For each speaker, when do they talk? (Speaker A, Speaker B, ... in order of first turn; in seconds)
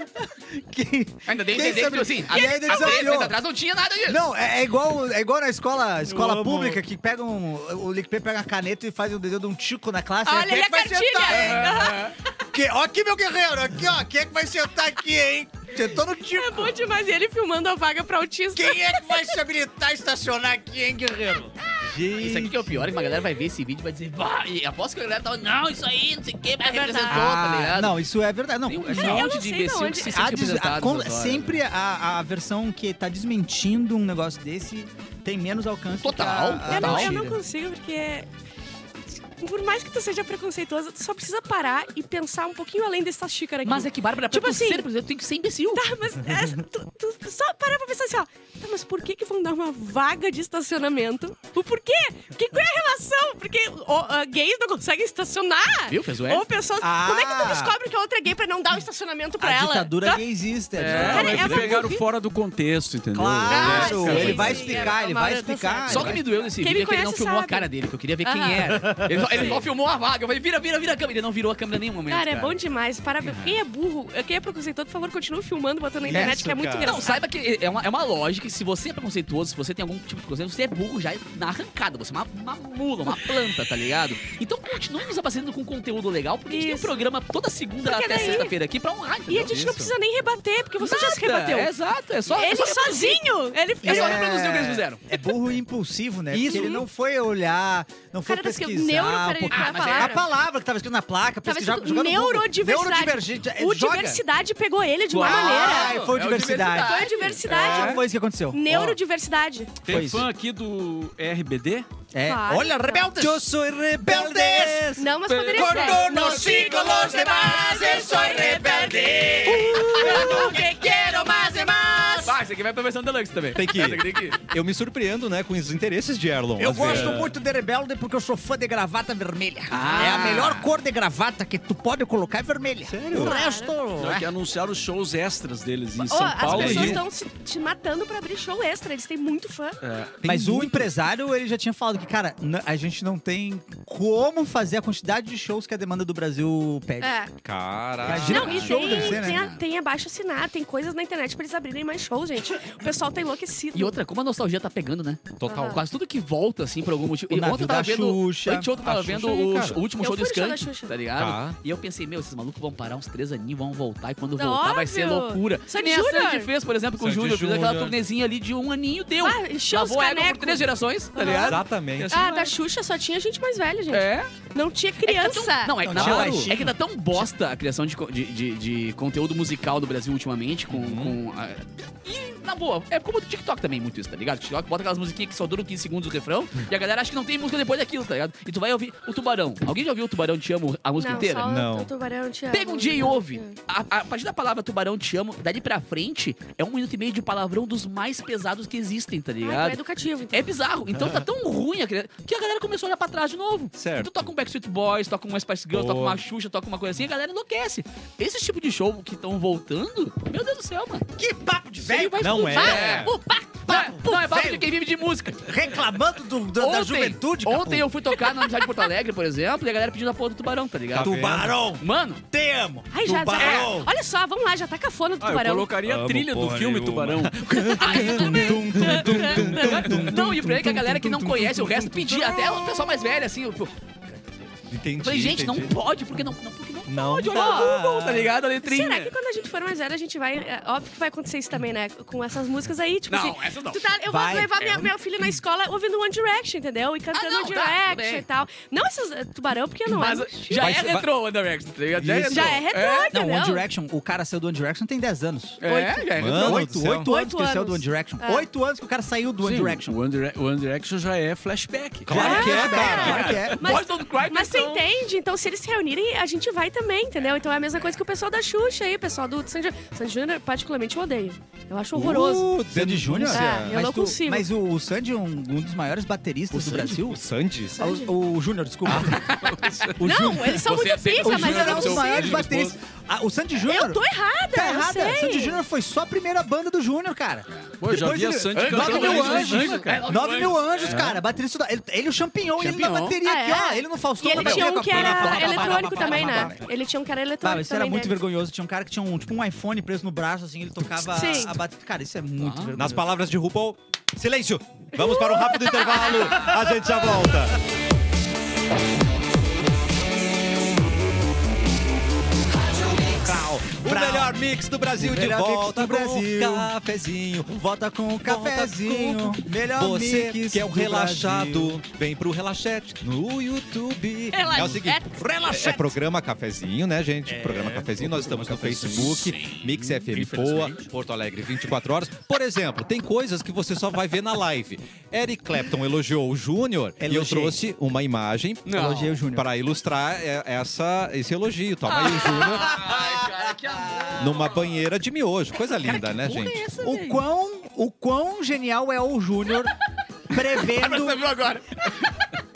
Speaker A: 0.2-3.4, 4.1-12.0, 12.5-16.8, 18.5-22.5, 27.1-29.3, 30.1-37.4, 56.8-57.8, 59.4-61.8, 63.1-66.2, 76.1-76.5, 93.8-104.2, 105.1-109.0, 109.9-110.3, 112.1-122.4, 126.6-134.3, 136.6-137.0, 140.2-147.1, 148.0-149.4, 157.3-158.8, 175.8-176.8, 211.2-213.0, 213.7-214.7, 215.4-217.9, 221.0-223.9, 227.9-232.2, 244.1-244.9, 253.1-255.6, 256.2-260.0, 262.1-263.6, 272.7-277.2, 277.8-279.4, 279.9-296.6, 297.4-303.1, 306.1-307.2, 313.7-314.4, 314.9-316.7, 317.5-321.8, 325.1-325.9, 327.3-329.2, 330.2-330.7, 337.0-337.6, 338.7-339.5, 342.1-344.5, 346.8-349.7, 350.3-351.2
Speaker B: 1.3-4.2, 11.3-12.2, 22.1-28.0, 28.7-31.6, 36.0-37.2, 43.6-45.8, 55.9-56.5, 60.9-61.2, 64.0-64.6, 65.9-72.6, 76.1-89.7, 90.8-93.2, 93.8-95.0, 96.3-96.8, 99.5-100.2, 105.2-107.9, 119.8-120.4, 122.2-124.4, 129.7-130.7, 148.1-149.6, 153.7-172.5, 173.9-174.3, 175.0-191.5, 192.5-199.8, 200.3-211.1, 211.8-215.8, 216.6-221.2, 221.8-222.2, 227.8-228.5, 229.6-239.1, 243.1-243.9, 247.1-248.2, 249.9-253.1, 255.6-256.7, 262.9-264.9, 276.6-276.9, 278.9-279.9, 280.6-282.7, 288.5-291.1, 292.6-293.2, 294.4-296.6, 302.4-302.8, 328.9-330.8, 338.7-339.2, 341.9-344.5, 345.8-347.2, 350.3-352.3
Speaker C: 2.3-3.2, 10.2-12.1, 16.2-19.2, 26.7-27.3, 28.9-30.3, 36.7-38.3, 39.4-44.9, 45.7-60.2, 60.9-62.0, 63.5-67.7, 68.2-69.6, 72.1-77.2, 86.5-87.0, 87.8-88.6, 89.3-91.7, 92.3-94.4, 96.4-96.9, 98.3-100.2, 101.4-106.0, 106.6-109.8, 112.2-113.1, 115.0-122.3, 129.8-130.4, 133.1-133.8, 136.0-139.8, 147.0-147.3, 148.1-154.0, 155.5-155.8, 160.0-160.9, 164.4-166.5, 169.2-175.8, 191.0-193.6, 199.4-200.5, 212.4-213.1, 218.2-218.8, 222.9-225.7, 227.6-230.0, 232.2-232.8, 237.0-237.7, 238.6-250.8, 252.3-253.7, 255.6-256.1, 257.1-258.5, 262.1-272.5, 273.3-274.5, 277.8-278.1, 280.0-282.5, 283.6-285.6, 293.2-298.2, 301.1-301.6, 305.0-306.4, 324.3-325.8
Speaker D: 6.1-6.8, 21.9-22.8, 63.6-64.4, 76.1-77.0, 89.5-89.8, 96.3-96.7, 113.2-115.0, 115.6-116.1, 120.0-120.6, 123.5-127.2, 132.9-133.4, 136.5-137.0, 147.4-148.6, 155.4-155.8, 158.8-159.8, 161.2-161.6, 167.0-168.0, 171.3-172.1, 175.9-176.5, 180.7-181.2, 191.4-191.9, 200.9-201.3, 203.8-204.1, 205.7-206.2, 212.2-213.2, 220.9-221.6, 225.8-230.3, 234.7-235.8, 236.9-238.3, 250.5-251.1, 252.0-252.6, 256.2-257.1, 262.1-263.5, 271.9-273.8, 276.6-277.8, 278.9-279.2, 302.8-307.6, 312.8-317.6, 318.2-342.8, 344.2-346.7
Speaker E: 60.8-64.8, 109.8-111.9, 115.5-116.0, 126.8-127.3, 134.0-137.1, 139.8-140.9, 225.2-227.6, 259.4-262.5, 279.6-279.9, 287.8-290.1, 290.9-291.2